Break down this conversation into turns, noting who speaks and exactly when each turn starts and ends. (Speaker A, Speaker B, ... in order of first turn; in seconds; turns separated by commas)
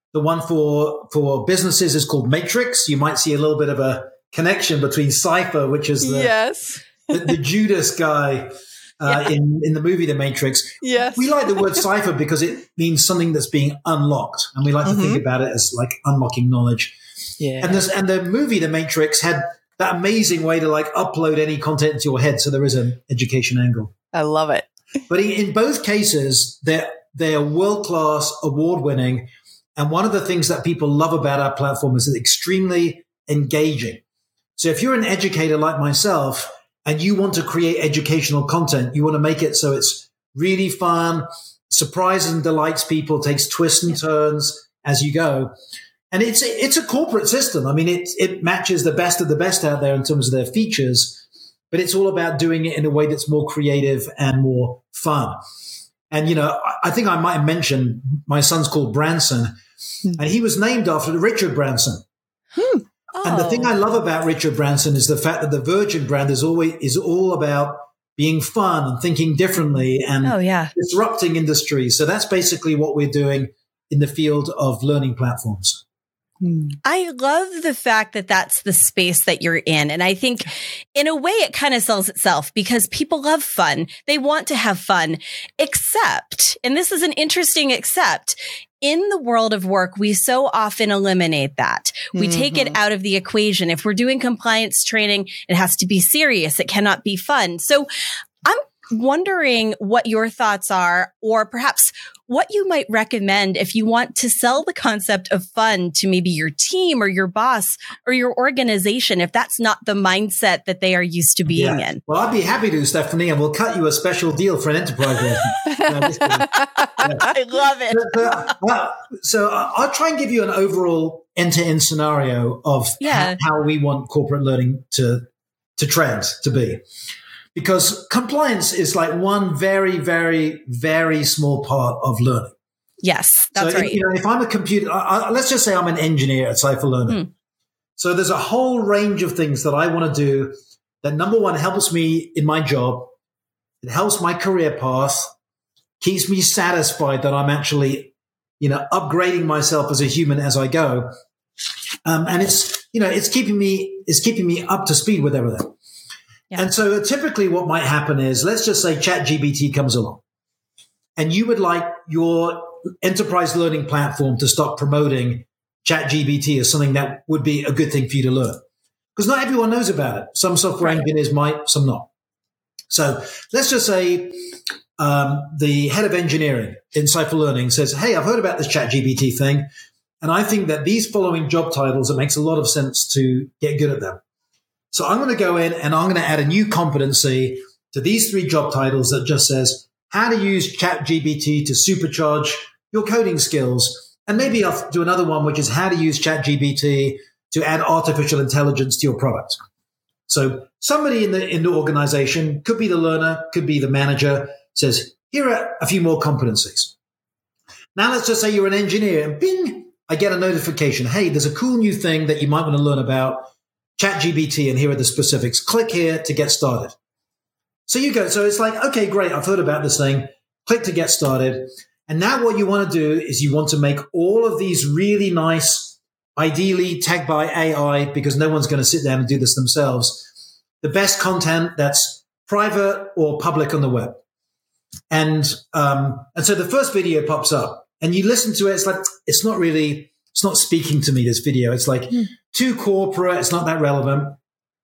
Speaker A: 0.1-6.3, Speaker B: 6.0-7.4, Speaker A: 7.1-17.0, Speaker B: 10.8-11.7, Speaker B: 14.8-15.2, Speaker B: 17.4-17.8, Speaker A: 17.6-23.9, Speaker B: 24.1-24.7, Speaker A: 25.1-34.0, Speaker A: 34.6-45.5, Speaker A: 46.1-55.4, Speaker A: 56.1-59.6, Speaker A: 60.2-62.0, Speaker B: 62.6-62.9, Speaker C: 63.2-63.7, Speaker A: 63.2-75.8, Speaker C: 70.2-70.7, Speaker B: 76.4-76.8, Speaker C: 76.8-97.9, Speaker B: 92.1-92.8, Speaker C: 98.5-112.0, Speaker A: 111.5-117.3, Speaker B: 115.7-117.1, Speaker C: 117.0-118.5, Speaker A: 117.9-125.3, Speaker C: 123.0-123.4, Speaker A: 125.8-126.8, Speaker A: 127.5-132.5, Speaker C: 133.0-134.0, Speaker A: 133.6-137.2, Speaker A: 138.0-143.1, Speaker A: 143.8-145.3, Speaker A: 146.0-151.1, Speaker A: 152.1-155.7, Speaker A: 156.6-160.2, Speaker A: 161.2-168.6, Speaker A: 169.2-172.1, Speaker A: 172.9-179.7, Speaker A: 180.2-184.2, Speaker A: 184.9-199.6, Speaker A: 200.3-206.9, Speaker A: 207.9-216.9, Speaker A: 217.9-230.3, Speaker A: 230.8-234.2, Speaker A: 235.1-244.4